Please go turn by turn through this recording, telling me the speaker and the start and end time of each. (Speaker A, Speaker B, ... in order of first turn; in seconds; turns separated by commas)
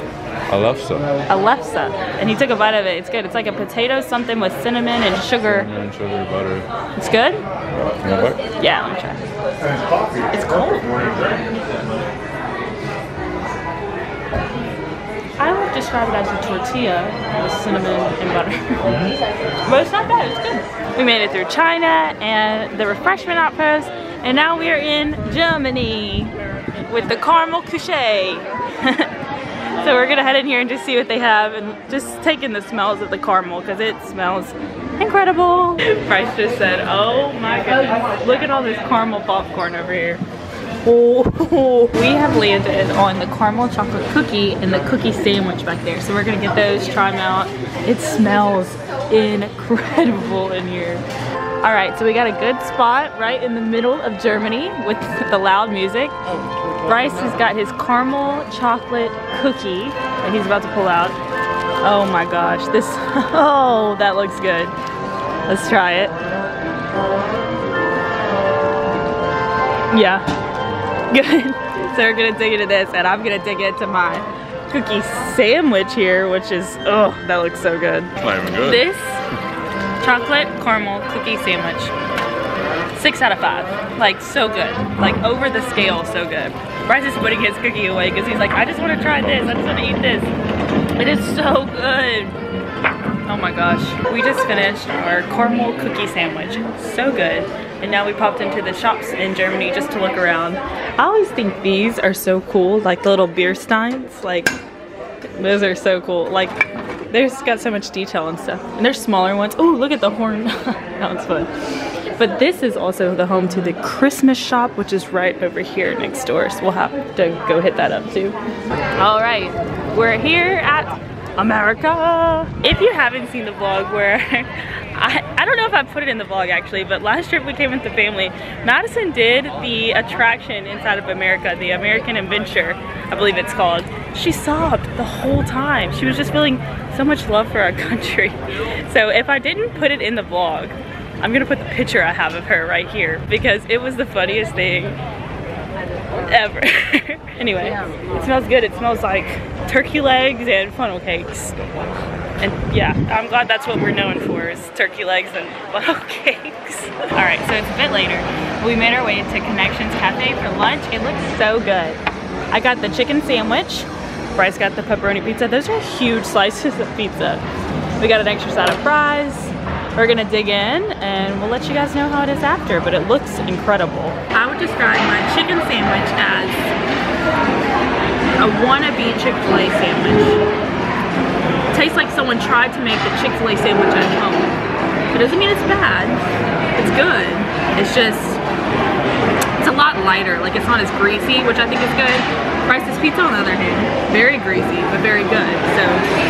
Speaker A: 0.5-1.1, Speaker B: 1.3-5.7, Speaker A: 5.4-6.7, Speaker B: 7.0-7.4, Speaker A: 7.7-8.4, Speaker B: 8.6-9.3, Speaker B: 10.3-11.3, Speaker B: 15.4-19.0, Speaker B: 19.6-26.3, Speaker B: 26.9-29.1, Speaker B: 29.7-40.2, Speaker B: 40.8-51.0, Speaker B: 51.6-56.1, Speaker B: 56.8-61.2, Speaker B: 61.8-64.7, Speaker B: 65.5-66.1, Speaker B: 69.9-70.2, Speaker B: 71.1-79.2, Speaker A: 78.2-78.8, Speaker B: 80.0-81.9, Speaker B: 82.9-90.3, Speaker B: 91.0-92.4, Speaker B: 93.2-104.5, Speaker B: 105.3-111.5, Speaker B: 112.2-118.4, Speaker B: 119.0-145.0, Speaker B: 146.2-151.6, Speaker A: 151.6-152.0, Speaker B: 152.4-167.4, Speaker B: 168.0-176.7, Speaker B: 178.4-180.4, Speaker B: 181.7-184.5, Speaker B: 185.1-186.2, Speaker B: 186.8-188.4, Speaker B: 189.6-196.1